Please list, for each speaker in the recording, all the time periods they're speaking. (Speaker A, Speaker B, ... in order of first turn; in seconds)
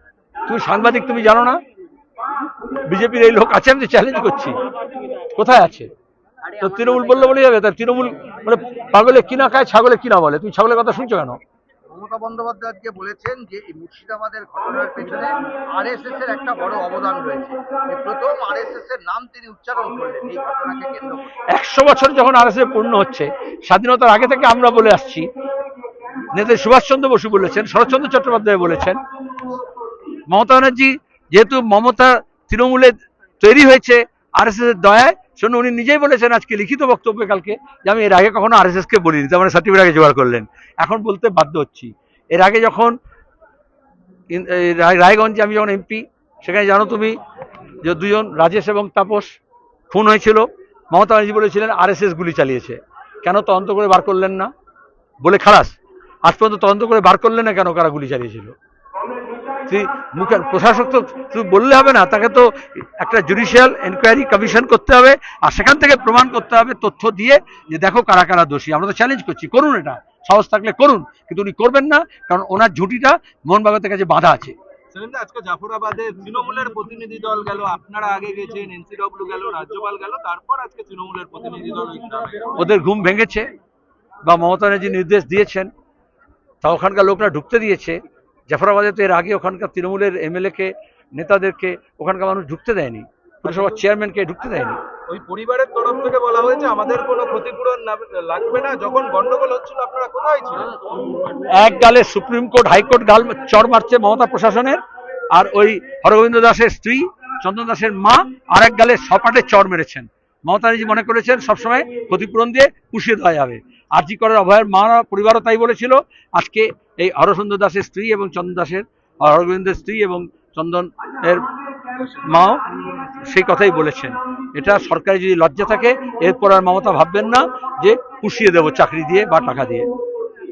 Speaker A: 0.5-1.6, 2.9-4.5, 5.3-5.9, 6.6-11.4, 21.5-25.3, 26.3-29.0, 30.3-42.9, 44.3-47.1, 47.8-49.3, 49.9-54.5, 55.2-55.7, 56.2-58.5, 59.7-74.5, 82.5-83.5, 84.2-85.7, 86.6-94.8, 101.5-104.8, 105.3-121.4, 122.1-122.6, 123.2-129.9
Speaker B: 11.9-21.4
Speaker C: 74.9-82.5, 93.4-93.8, 95.1-100.7